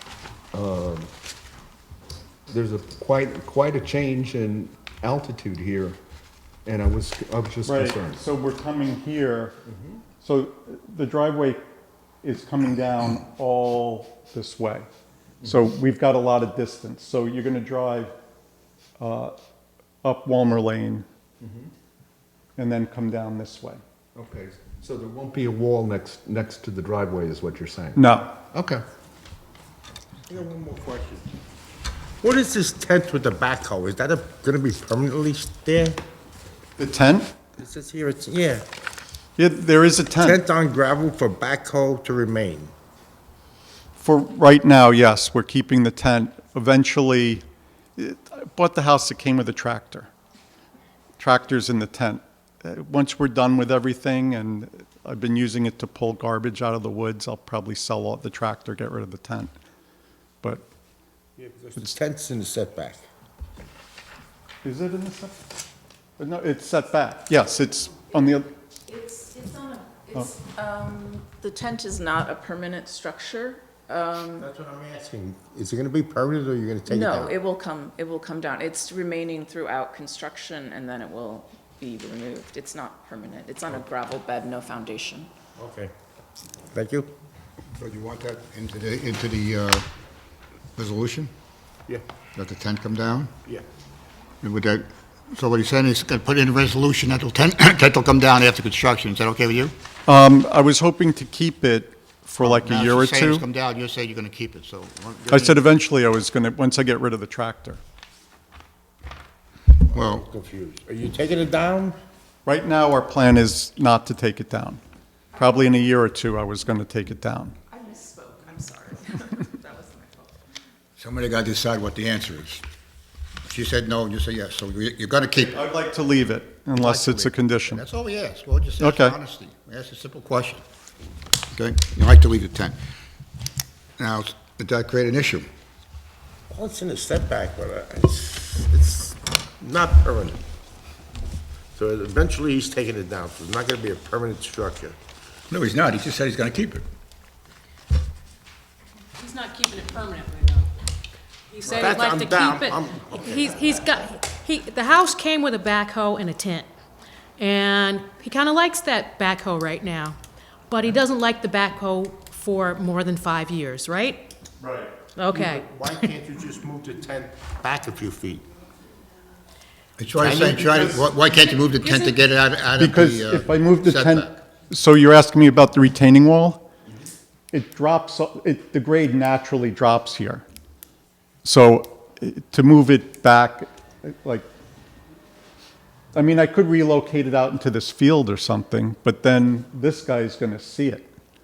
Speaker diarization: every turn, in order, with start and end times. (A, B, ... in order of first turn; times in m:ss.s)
0:00.5-0:01.1 A
0:02.5-0:06.0 A
0:06.6-0:08.2 A
0:07.6-0:09.6 B
0:10.2-0:11.6 B
0:12.2-0:14.9 B
0:15.4-0:18.2 B
0:19.0-0:19.4 B
0:20.0-0:21.1 B
0:21.4-0:21.7 A
0:22.6-0:23.8 B
0:24.2-0:28.8 A
0:28.0-0:28.4 B
0:30.3-0:31.3 C
0:32.2-0:36.0 C
0:36.8-0:37.3 B
0:37.6-0:38.6 C
0:39.4-0:40.4 B
0:40.2-0:42.7 C
0:44.0-0:47.4 B
0:48.0-0:50.1 B
0:51.2-0:59.5 B
1:01.4-1:03.0 C
1:04.6-1:05.4 B
1:06.2-1:08.5 B
1:08.9-1:14.5 D
1:14.4-1:17.4 C
1:16.9-1:25.3 D
1:25.6-1:25.9 C
1:26.7-1:27.1 C
1:27.8-1:29.9 E
1:30.8-1:31.3 E
1:32.4-1:33.3 E
1:34.4-1:39.7 E
1:40.1-1:43.4 B
1:42.4-1:45.6 E
1:45.3-1:47.8 B
1:49.9-1:52.0 C
1:49.9-1:50.2 E
1:52.5-1:54.8 B
1:55.4-1:57.6 B
1:57.7-2:00.3 D
2:01.0-2:02.6 E
2:03.5-2:05.6 E
2:05.4-2:07.8 B
2:06.8-2:10.6 E
2:08.8-2:09.2 B
2:11.5-2:12.8 E
2:14.0-2:15.5 E
2:16.5-2:20.4 C
2:21.8-2:25.0 C
2:25.5-2:26.8 E
2:29.2-2:30.7 F
2:31.5-2:36.7 F
2:31.6-2:33.8 C
2:37.4-2:40.2 F
2:40.7-2:44.2 F
2:44.6-2:44.9 B
2:45.2-2:45.9 F
2:45.3-2:48.4 C
2:50.0-2:54.4 E
2:50.2-2:51.1 C
2:51.8-2:52.1 F
2:52.8-2:56.6 B
2:57.5-3:00.4 B
3:01.4-3:04.5 B
3:06.2-3:11.1 B